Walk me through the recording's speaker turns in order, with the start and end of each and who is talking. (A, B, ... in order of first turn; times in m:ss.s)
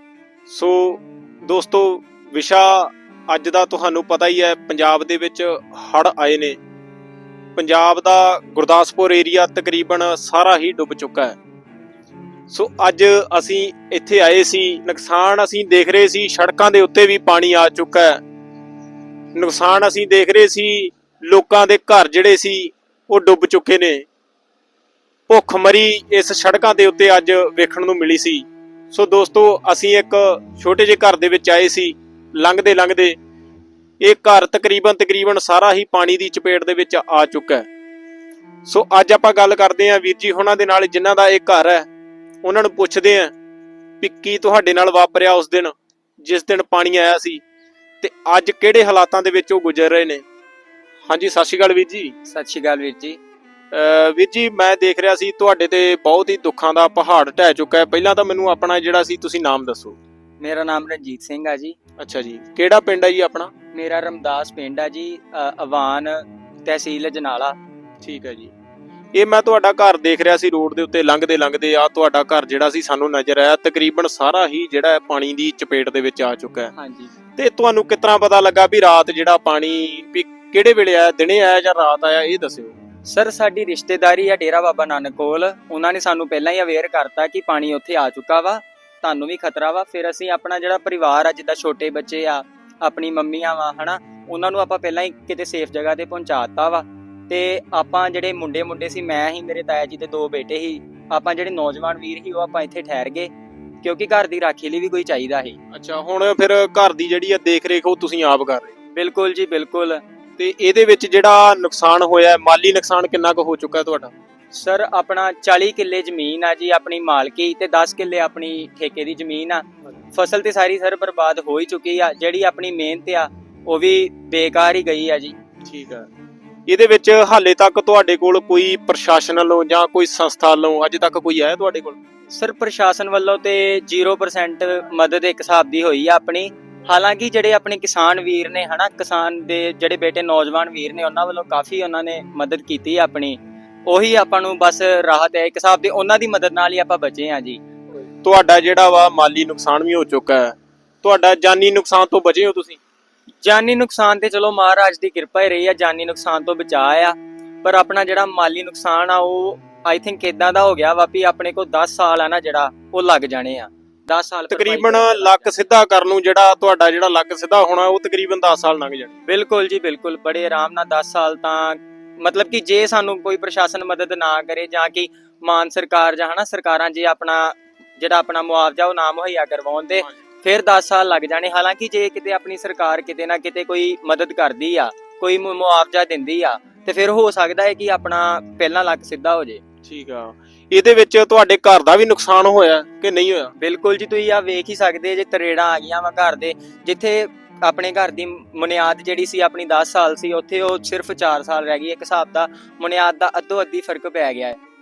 0:00.5-0:06.6 A
0:07.6-0:11.4 A
0:12.5-0:18.2 A
0:19.3-0:24.0 A
0:25.3-0:33.2 A
0:34.0-0:37.7 A
0:38.7-0:41.9 A
0:42.4-0:43.3 A
0:44.0-0:47.4 A
0:48.0-0:50.2 A
0:51.1-0:52.1 A
0:52.2-0:53.2 B
0:53.7-1:00.0 A
1:00.4-1:01.8 B
1:02.0-1:03.5 A
1:03.7-1:07.6 B
1:08.0-1:08.5 A
1:09.1-1:16.7 A
1:16.8-1:17.1 B
1:17.4-1:22.8 A
1:23.1-1:43.3 B
1:43.8-1:45.6 B
1:45.7-1:48.7 A
1:48.9-1:50.0 B
1:50.4-1:54.1 A
1:54.5-2:05.3 B
2:05.6-2:06.1 A
2:06.7-2:12.0 A
2:12.3-2:27.6 B
2:28.2-2:32.8 A
2:33.4-2:45.5 B
2:44.5-2:49.1 A
2:49.2-3:09.6 B
3:09.8-3:13.5 A
3:13.6-3:24.6 B